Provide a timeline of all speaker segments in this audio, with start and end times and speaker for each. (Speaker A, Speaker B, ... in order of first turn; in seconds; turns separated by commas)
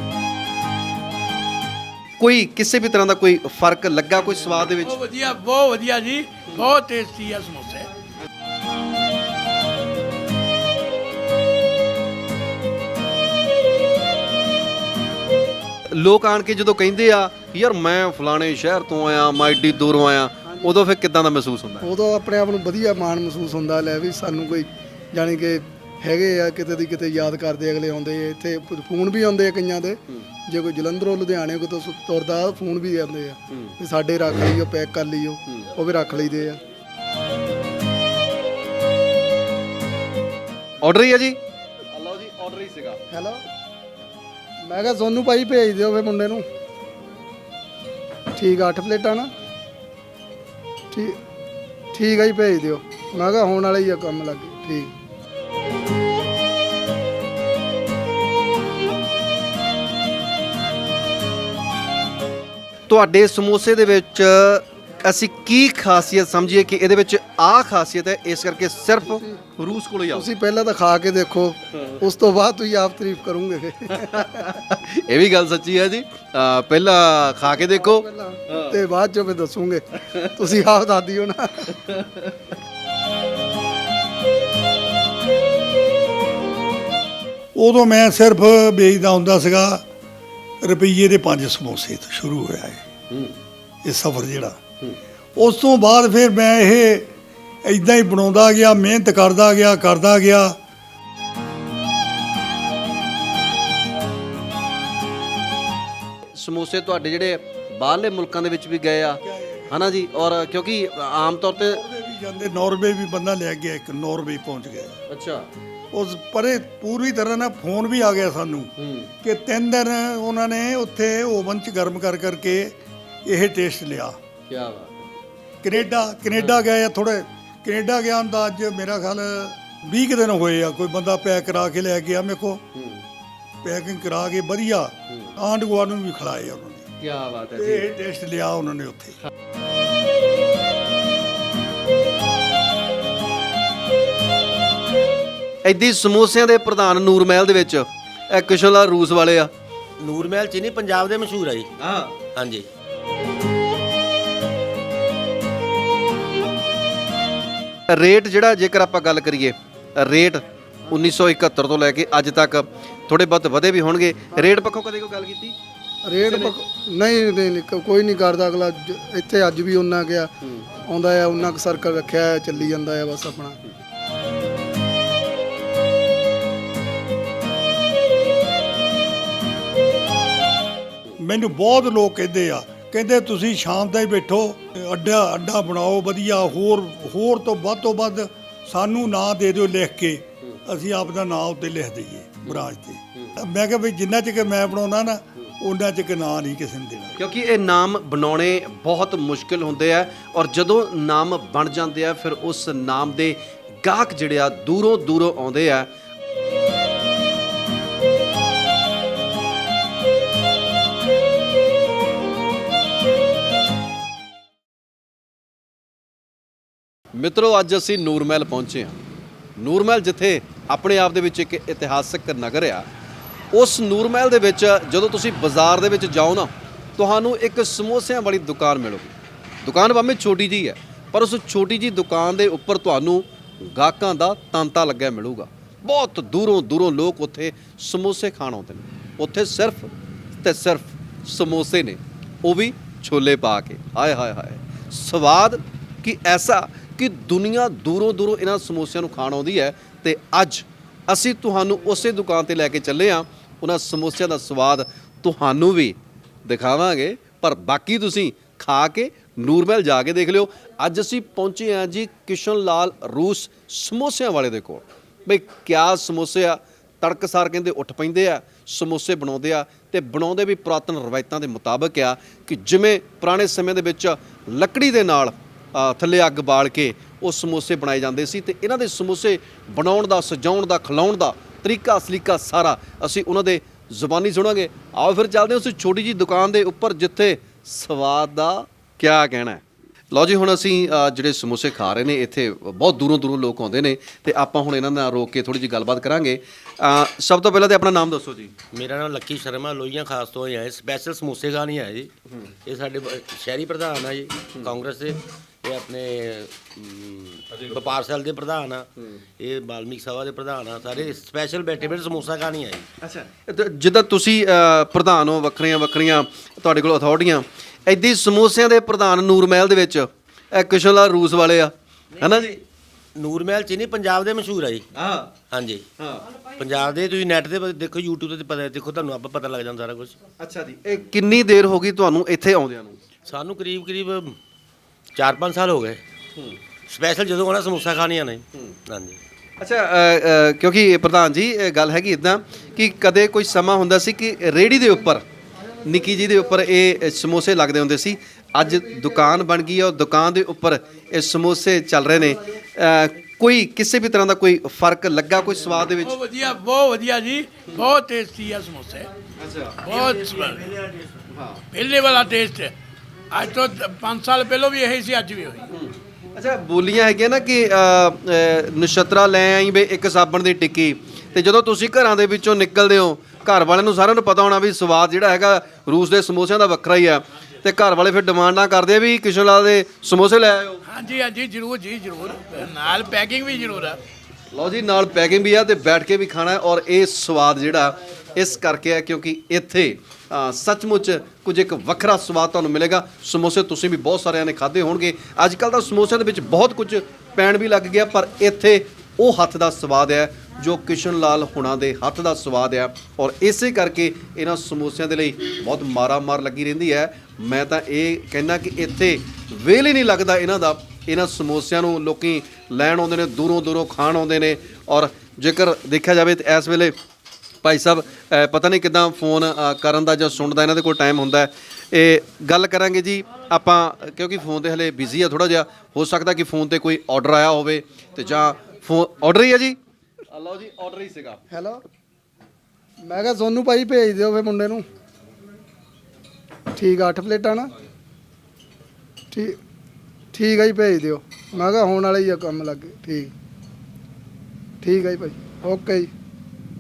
Speaker A: 2.2-5.0, Speaker B: 4.8-7.9, Speaker A: 15.9-21.9, Speaker C: 20.5-20.7, Speaker C: 21.8-36.6, Speaker A: 33.5-33.8, Speaker A: 40.8-41.4, Speaker A: 41.9-43.0, Speaker C: 43.1-43.4, Speaker C: 44.6-46.5, Speaker C: 48.4-49.3, Speaker C: 50.9-51.2, Speaker C: 51.9-54.9, Speaker A: 62.9-70.3, Speaker C: 69.0-69.4, Speaker C: 70.1-74.5, Speaker A: 71.7-72.0, Speaker A: 73.9-78.8, Speaker C: 77.4-81.7, Speaker A: 81.7-82.4, Speaker D: 87.5-89.8, Speaker D: 90.6-92.8, Speaker A: 93.1-93.4, Speaker D: 93.8-94.6, Speaker D: 95.4-97.1, Speaker D: 97.7-100.6, Speaker A: 106.3-111.8, Speaker D: 109.2-109.8, Speaker D: 111.6-115.0, Speaker A: 115.1-115.5, Speaker D: 115.9-124.2, Speaker A: 118.8-119.1, Speaker A: 124.5-125.1, Speaker D: 125.6-132.6, Speaker A: 126.3-126.6, Speaker A: 132.7-133.0, Speaker D: 133.6-136.9, Speaker A: 135.1-135.4, Speaker A: 137.0-137.9, Speaker D: 137.6-139.2, Speaker A: 145.6-149.5, Speaker E: 150.0-151.7, Speaker A: 151.8-152.2, Speaker E: 152.3-152.7, Speaker A: 157.9-165.6, Speaker C: 166.1-170.3, Speaker A: 166.2-166.6, Speaker C: 170.9-173.6, Speaker D: 181.2-197.2, Speaker A: 197.2-205.9, Speaker A: 217.1-219.0, Speaker A: 219.6-222.9, Speaker A: 223.5-239.9, Speaker A: 240.4-298.6, Speaker E: 298.7-302.1, Speaker E: 302.6-312.9, Speaker A: 313.0-322.6, Speaker E: 323.1-324.9, Speaker A: 324.9-325.3, Speaker E: 325.5-325.9, Speaker A: 326.0-326.2, Speaker E: 326.6-330.2, Speaker A: 330.4-333.0, Speaker E: 333.3-334.4, Speaker E: 335.1-336.0, Speaker E: 336.9-339.2, Speaker A: 339.6-345.2, Speaker A: 345.8-356.2, Speaker B: 356.0-359.1, Speaker A: 359.4-359.8, Speaker B: 359.8-360.7, Speaker E: 360.6-361.1, Speaker A: 361.3-361.6, Speaker B: 361.7-362.7, Speaker B: 363.3-365.7, Speaker A: 365.7-380.8, Speaker B: 380.9-384.0, Speaker A: 384.5-417.0, Speaker A: 417.6-429.8, Speaker A: 430.3-431.4, Speaker C: 431.5-431.8, Speaker C: 433.0-434.9, Speaker C: 436.8-437.7, Speaker C: 439.3-439.6, Speaker C: 440.3-443.3, Speaker C: 444.8-446.1